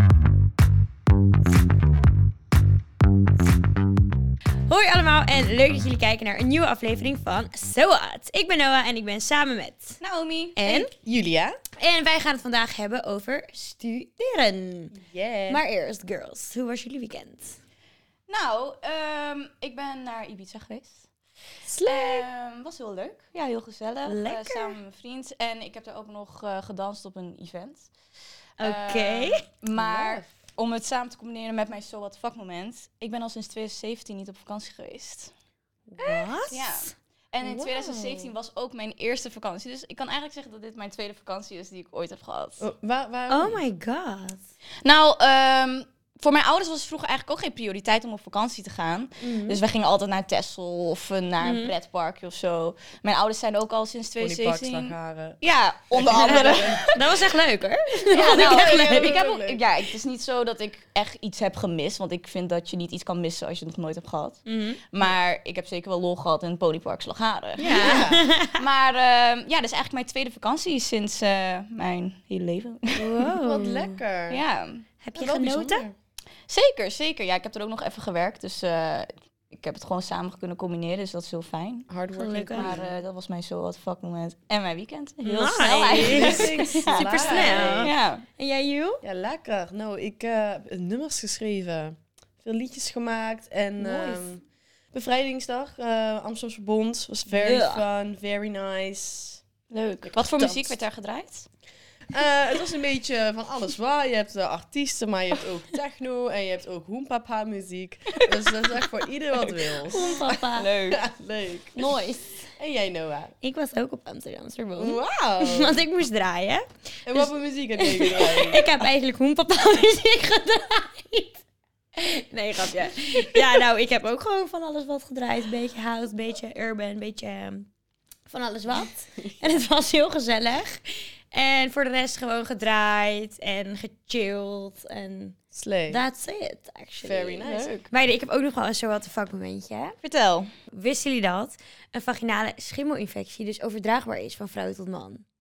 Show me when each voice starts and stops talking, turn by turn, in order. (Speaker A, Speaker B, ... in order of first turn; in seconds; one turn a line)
Speaker A: 4.7-10.0
Speaker B: 10.0-10.9
Speaker A: 10.6-10.9
Speaker C: 11.0-11.6
Speaker A: 11.8-14.9
Speaker C: 14.9-15.6
Speaker A: 15.5-17.6
Speaker B: 18.3-21.0
Speaker C: 21.6-22.2
Speaker B: 21.9-27.9
Speaker A: 24.0-24.8
Speaker B: 28.6-35.3
Speaker A: 28.6-29.4
Speaker C: 29.7-30.3
Speaker C: 35.9-36.2
Speaker A: 36.0-36.9
Speaker B: 36.0-42.6
Speaker C: 37.4-38.0
Speaker C: 42.6-43.6
Speaker A: 43.3-44.4
Speaker B: 44.8-57.1
Speaker C: 49.2-49.6
Speaker A: 51.4-51.7
Speaker C: 54.2-56.9
Speaker A: 56.2-59.2
Speaker C: 58.1-59.6
Speaker B: 58.1-64.4
Speaker A: 64.5-64.8
Speaker B: 64.9-73.3
Speaker C: 67.6-68.3
Speaker A: 67.6-68.6
Speaker A: 73.0-74.0
Speaker C: 73.4-74.4
Speaker B: 74.3-74.8
Speaker A: 75.0-75.8
Speaker C: 75.1-75.9
Speaker B: 76.5-81.9
Speaker C: 81.9-82.9
Speaker A: 82.1-82.7
Speaker B: 82.5-88.2
Speaker A: 85.2-89.0
Speaker C: 85.9-87.9
Speaker C: 89.0-99.4
Speaker A: 93.8-94.2
Speaker A: 97.3-97.8
Speaker B: 99.7-101.5
Speaker C: 100.0-100.8
Speaker C: 102.1-111.9
Speaker A: 109.8-110.7
Speaker B: 109.9-111.0
Speaker A: 111.7-112.5
Speaker C: 112.6-113.3
Speaker A: 113.4-127.7
Speaker C: 114.8-115.8
Speaker C: 117.0-118.7
Speaker A: 128.3-135.4
Speaker C: 129.2-129.4
Speaker C: 135.5-136.0
Speaker A: 135.9-140.0
Speaker C: 137.0-137.8
Speaker B: 137.4-137.9
Speaker B: 140.0-140.5
Speaker A: 140.7-145.2